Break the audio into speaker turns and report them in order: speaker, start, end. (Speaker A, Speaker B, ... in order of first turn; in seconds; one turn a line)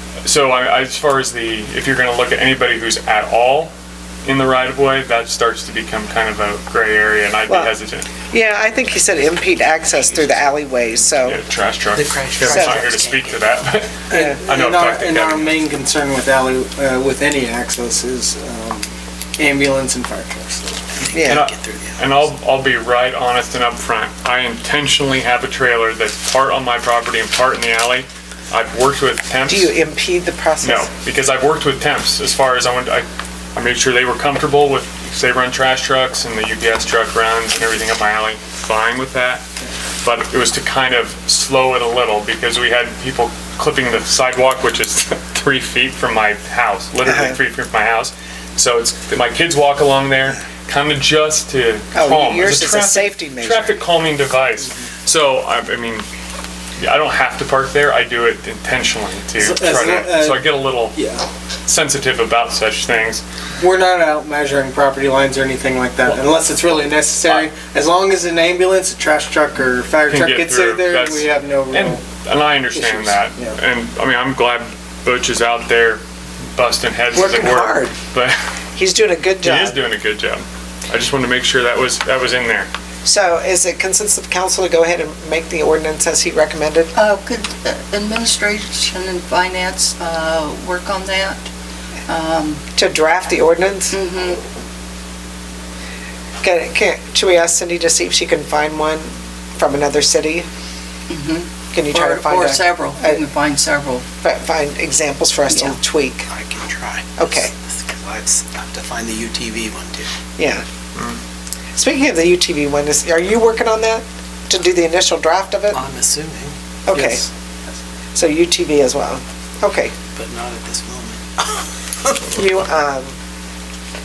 Speaker A: 0.2-3.7
Speaker A: 4.2-8.1
Speaker B: 8.3-11.4
Speaker C: 9.0-11.2
Speaker A: 11.2-15.6
Speaker C: 11.9-13.6
Speaker B: 12.4-12.8
Speaker D: 14.1-20.8
Speaker C: 21.0-22.3
Speaker B: 21.1-21.4
Speaker A: 21.2-29.7
Speaker B: 29.5-30.9
Speaker A: 30.6-39.4
Speaker A: 40.0-56.0
Speaker B: 47.0-47.4
Speaker B: 51.9-53.8
Speaker A: 56.8-61.0
Speaker D: 59.3-61.3
Speaker A: 61.7-63.2
Speaker D: 63.6-72.0
Speaker A: 70.1-76.0
Speaker D: 72.7-73.6
Speaker A: 76.5-78.4
Speaker B: 77.1-77.9
Speaker B: 78.8-79.8
Speaker A: 79.4-82.7
Speaker B: 83.0-86.9
Speaker E: 86.9-91.4
Speaker E: 92.1-92.6
Speaker B: 92.8-93.9
Speaker E: 93.9-94.4
Speaker B: 96.4-100.5
Speaker E: 101.1-104.0
Speaker B: 101.7-103.2
Speaker B: 104.2-106.3
Speaker E: 105.5-105.8
Speaker C: 106.3-110.1
Speaker B: 107.2-107.5
Speaker B: 110.4-110.6
Speaker B: 111.8-115.8
Speaker C: 115.7-117.3
Speaker B: 116.9-117.2
Speaker B: 118.1-119.9
Speaker C: 120.2-122.3
Speaker B: 122.3-123.1